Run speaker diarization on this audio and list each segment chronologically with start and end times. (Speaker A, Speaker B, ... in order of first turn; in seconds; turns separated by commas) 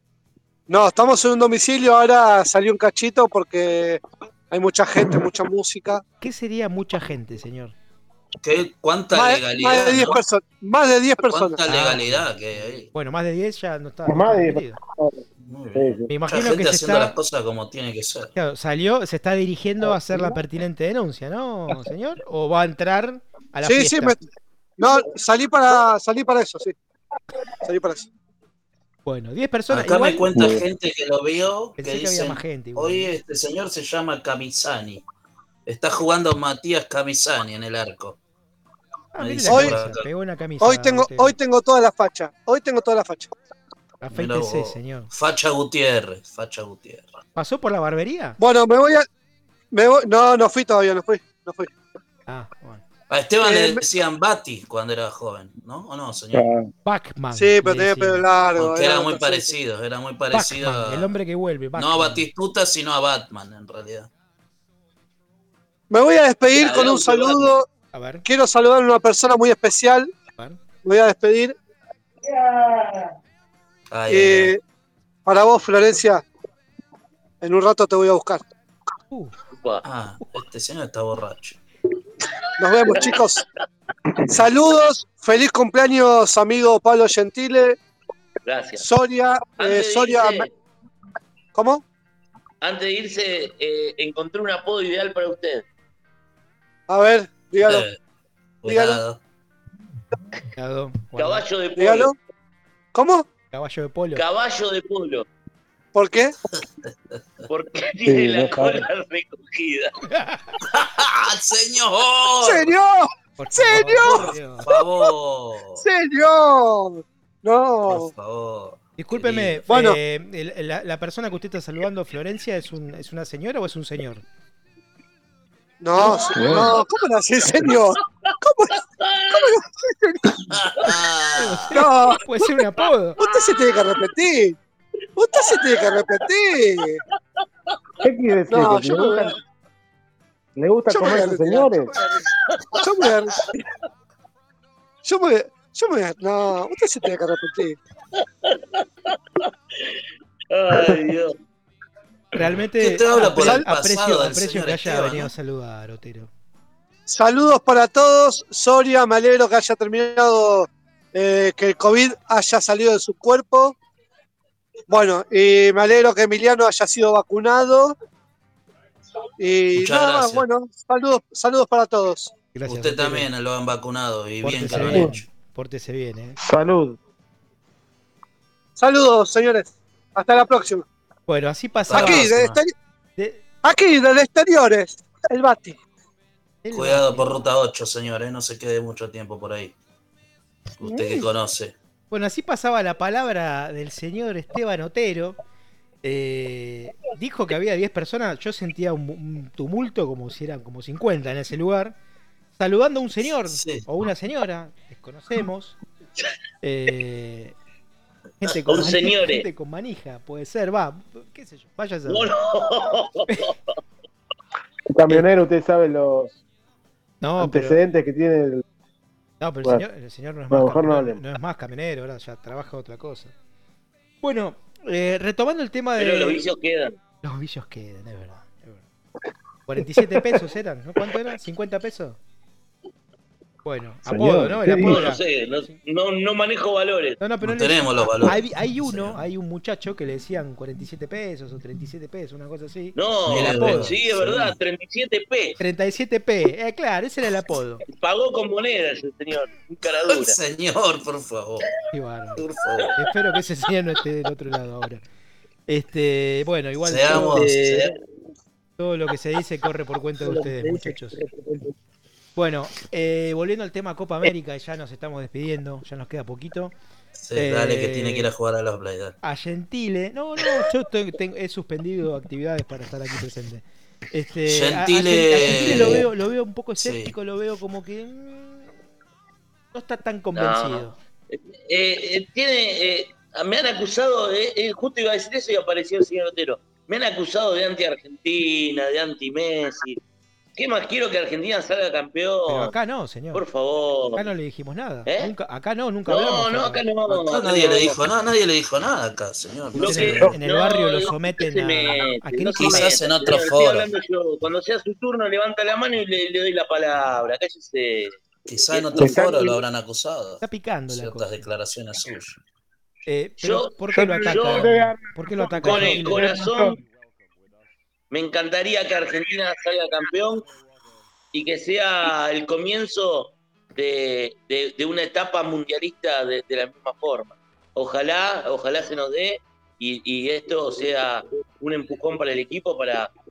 Speaker A: 0.7-6.0, Speaker B: 6.2-7.8, Speaker C: 8.4-10.2, Speaker A: 9.1-11.6, Speaker C: 11.2-12.9, Speaker B: 11.7-12.3, Speaker B: 12.9-14.8, Speaker D: 14.1-15.2, Speaker C: 15.4-18.3, Speaker D: 15.8-16.1, Speaker B: 16.1-17.1, Speaker B: 18.4-24.2, Speaker A: 23.6-24.2, Speaker A: 24.8-26.8, Speaker A: 27.6-28.1, Speaker B: 29.1-30.3, Speaker C: 29.7-35.0, Speaker B: 31.8-33.1, Speaker C: 35.7-38.2, Speaker B: 39.1-41.4, Speaker C: 39.2-40.0, Speaker A: 39.5-39.8, Speaker A: 40.6-43.3, Speaker B: 44.0-45.1, Speaker C: 44.1-47.1, Speaker B: 47.4-48.4, Speaker A: 48.4-49.1, Speaker A: 49.7-51.7, Speaker B: 52.3-52.8, Speaker C: 53.1-56.5, Speaker A: 53.4-53.8, Speaker D: 56.3-56.7, Speaker B: 56.9-58.2, Speaker A: 57.3-59.5, Speaker C: 58.6-61.1, Speaker B: 60.3-62.3, Speaker C: 61.8-64.1, Speaker A: 65.9-67.7, Speaker E: 66.6-67.5, Speaker B: 67.9-68.2, Speaker A: 68.2-70.1, Speaker A: 70.8-71.6, Speaker D: 72.2-73.1, Speaker C: 73.9-74.5, Speaker A: 74.1-74.6, Speaker A: 75.3-76.2, Speaker A: 77.4-78.5, Speaker C: 79.8-81.6, Speaker A: 82.6-83.4, Speaker A: 84.3-87.8, Speaker E: 88.5-88.9, Speaker A: 88.8-90.5, Speaker E: 89.6-90.5, Speaker A: 91.5-91.8, Speaker E: 92.6-95.6, Speaker A: 96.9-97.9, Speaker C: 97.6-98.0, Speaker C: 98.6-99.2, Speaker A: 98.7-99.0, Speaker B: 100.6-101.5, Speaker E: 101.2-102.1, Speaker A: 101.8-102.2, Speaker A: 102.9-103.2, Speaker B: 103.5-104.2, Speaker E: 104.2-105.3, Speaker A: 105.9-106.3, Speaker C: 106.8-107.5, Speaker E: 107.5-109.9, Speaker D: 108.1-108.9, Speaker B: 110.1-110.5, Speaker C: 110.7-112.8, Speaker A: 112.4-114.9, Speaker B: 113.4-114.7, Speaker C: 114.0-115.8, Speaker A: 115.8-118.1, Speaker C: 117.9-119.7, Speaker B: 119.0-124.2, Speaker A: 119.7-120.0, Speaker A: 125.8-130.4, Speaker D: 126.3-126.7, Speaker E: 129.1-129.4, Speaker C: 130.5-131.8, Speaker B: 131.4-133.2, Speaker A: 131.7-132.5, Speaker A: 133.2-134.6, Speaker A: 135.2-137.0, Speaker E: 135.4-136.0, Speaker D: 138.0-139.3, Speaker A: 138.5-139.4, Speaker D: 140.6-141.9, Speaker A: 140.9-141.8, Speaker A: 142.8-143.4, Speaker A: 145.0-147.8, Speaker E: 148.4-149.2, Speaker E: 149.8-151.3, Speaker B: 152.3-156.3, Speaker C: 152.8-155.3, Speaker A: 153.3-153.7, Speaker A: 157.1-163.8, Speaker A: 164.9-167.9, Speaker A: 169.4-172.3, Speaker C: 169.8-170.5, Speaker B: 172.5-173.3, Speaker C: 172.7-175.2, Speaker B: 174.4-176.4, Speaker D: 174.9-175.2, Speaker D: 176.4-177.0, Speaker A: 178.8-180.8, Speaker B: 181.3-182.3, Speaker C: 181.9-182.6, Speaker A: 181.9-182.7, Speaker B: 183.2-183.4, Speaker A: 183.6-185.8, Speaker B: 186.6-187.4, Speaker C: 186.7-189.8, Speaker C: 190.8-191.8, Speaker B: 190.8-191.3, Speaker B: 192.1-195.4, Speaker B: 196.0-201.9, Speaker B: 202.6-205.8, Speaker C: 203.5-203.9, Speaker B: 206.6-207.6, Speaker B: 208.4-212.3, Speaker E: 208.7-209.5, Speaker E: 212.1-213.6, Speaker D: 214.9-216.4, Speaker B: 217.2-217.8, Speaker D: 217.4-218.6, Speaker B: 219.4-223.3, Speaker D: 220.5-221.2, Speaker B: 224.2-226.4, Speaker E: 226.0-227.0, Speaker B: 227.2-228.8, Speaker B: 229.7-232.2, Speaker B: 233.7-235.7, Speaker D: 234.1-235.1, Speaker E: 234.7-237.2, Speaker B: 237.2-244.0, Speaker C: 237.4-239.2, Speaker E: 243.0-245.6, Speaker C: 243.3-244.6, Speaker B: 245.6-247.8, Speaker E: 247.9-250.4, Speaker C: 250.1-251.7, Speaker B: 251.9-252.4, Speaker C: 252.4-253.0, Speaker B: 253.0-255.0, Speaker B: 255.7-257.5, Speaker C: 256.8-257.9, Speaker D: 257.1-257.9, Speaker B: 258.8-261.2, Speaker D: 260.2-261.7, Speaker B: 262.4-266.7, Speaker C: 267.2-269.2, Speaker B: 267.4-268.3, Speaker B: 269.2-278.7, Speaker C: 274.5-276.1, Speaker C: 276.8-277.1, Speaker B: 279.7-281.0, Speaker E: 280.4-290.0, Speaker E: 290.6-292.7, Speaker B: 292.5-293.4, Speaker E: 293.3-294.2, Speaker B: 294.2-296.8, Speaker E: 295.1-295.3, Speaker E: 296.1-298.0, Speaker C: 297.1-300.4, Speaker E: 299.7-308.2, Speaker B: 299.8-303.0, Speaker C: 302.6-303.9, Speaker C: 308.5-312.4, Speaker E: 308.7-309.2, Speaker D: 308.9-309.6, Speaker B: 310.4-311.4, Speaker B: 313.1-316.2, Speaker E: 313.4-314.7, Speaker D: 313.9-316.8, Speaker E: 315.6-316.8, Speaker E: 318.1-320.5, Speaker E: 321.3-333.1